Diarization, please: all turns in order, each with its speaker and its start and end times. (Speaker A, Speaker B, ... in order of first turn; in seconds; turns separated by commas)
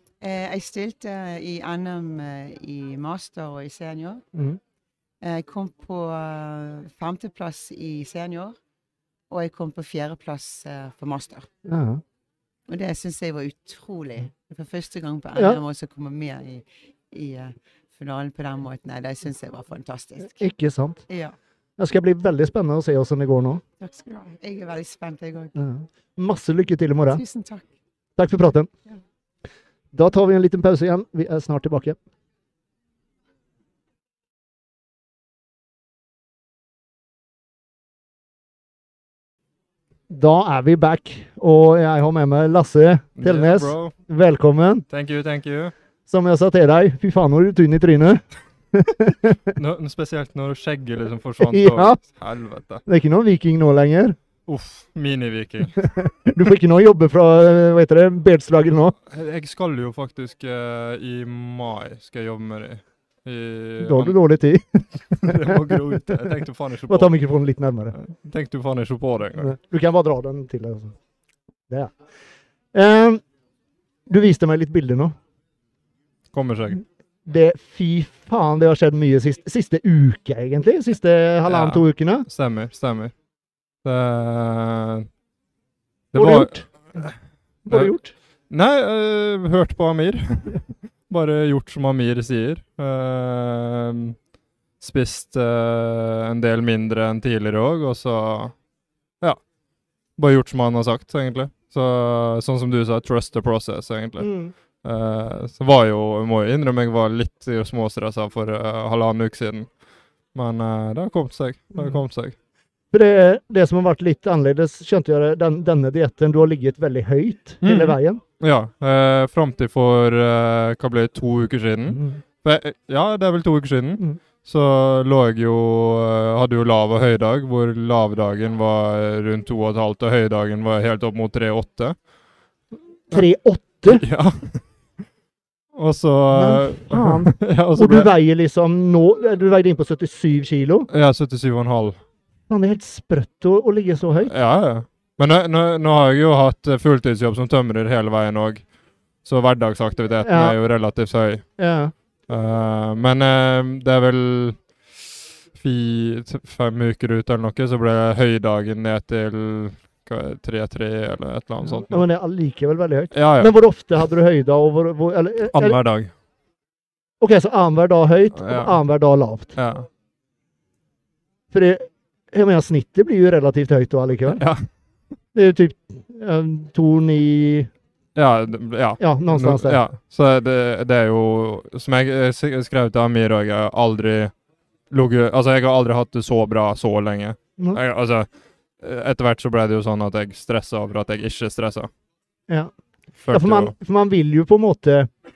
Speaker A: 0.2-4.2, Speaker B: 4.3-4.6, Speaker A: 5.2-8.6, Speaker A: 9.3-11.5, Speaker B: 11.6-12.0, Speaker A: 12.7-20.5, Speaker B: 15.3-15.6, Speaker B: 20.4-21.0, Speaker A: 21.1-21.3, Speaker B: 21.8-23.6, Speaker A: 23.8-25.5, Speaker B: 25.6-27.2, Speaker A: 27.1-27.7, Speaker B: 28.2-28.7, Speaker B: 29.9-32.0, Speaker B: 40.1-44.9, Speaker C: 43.2-43.9, Speaker C: 44.9-45.7, Speaker B: 46.1-48.2, Speaker B: 48.7-49.5, Speaker C: 49.5-52.8, Speaker B: 51.4-52.0, Speaker B: 52.9-54.1, Speaker C: 54.5-55.9, Speaker B: 55.8-59.0, Speaker C: 59.1-64.1, Speaker B: 63.8-66.3, Speaker C: 65.2-67.1, Speaker B: 66.9-68.0, Speaker C: 67.9-69.5, Speaker B: 69.4-70.9, Speaker B: 71.7-71.9, Speaker B: 72.7-73.2, Speaker B: 74.1-75.2, Speaker C: 76.3-76.8, Speaker B: 77.2-82.3, Speaker C: 81.5-83.1, Speaker C: 83.8-85.1, Speaker C: 86.1-87.2, Speaker B: 86.1-86.7, Speaker B: 87.7-88.1, Speaker C: 88.5-94.2, Speaker C: 94.8-98.5, Speaker C: 100.2-104.3, Speaker B: 104.2-104.5, Speaker C: 104.8-109.7, Speaker C: 110.3-112.3, Speaker B: 112.9-118.2, Speaker C: 117.6-131.9, Speaker B: 121.9-122.2, Speaker B: 133.1-134.0, Speaker C: 133.8-134.6, Speaker C: 135.7-138.1, Speaker B: 136.3-140.9, Speaker C: 140.9-142.0, Speaker B: 142.5-144.3, Speaker C: 144.2-148.7, Speaker C: 149.2-151.6, Speaker B: 150.2-150.6, Speaker B: 151.6-151.9, Speaker C: 152.3-154.8, Speaker C: 155.5-162.0, Speaker B: 161.6-165.8, Speaker C: 163.1-163.5, Speaker C: 165.5-166.1, Speaker B: 167.2-169.5, Speaker C: 168.4-168.7, Speaker C: 169.6-169.9, Speaker B: 171.5-174.4, Speaker C: 174.3-174.7, Speaker B: 175.3-177.7, Speaker C: 178.2-184.3, Speaker B: 179.0-179.8, Speaker C: 184.9-188.3, Speaker C: 188.8-191.9, Speaker C: 193.2-193.7, Speaker B: 193.3-195.1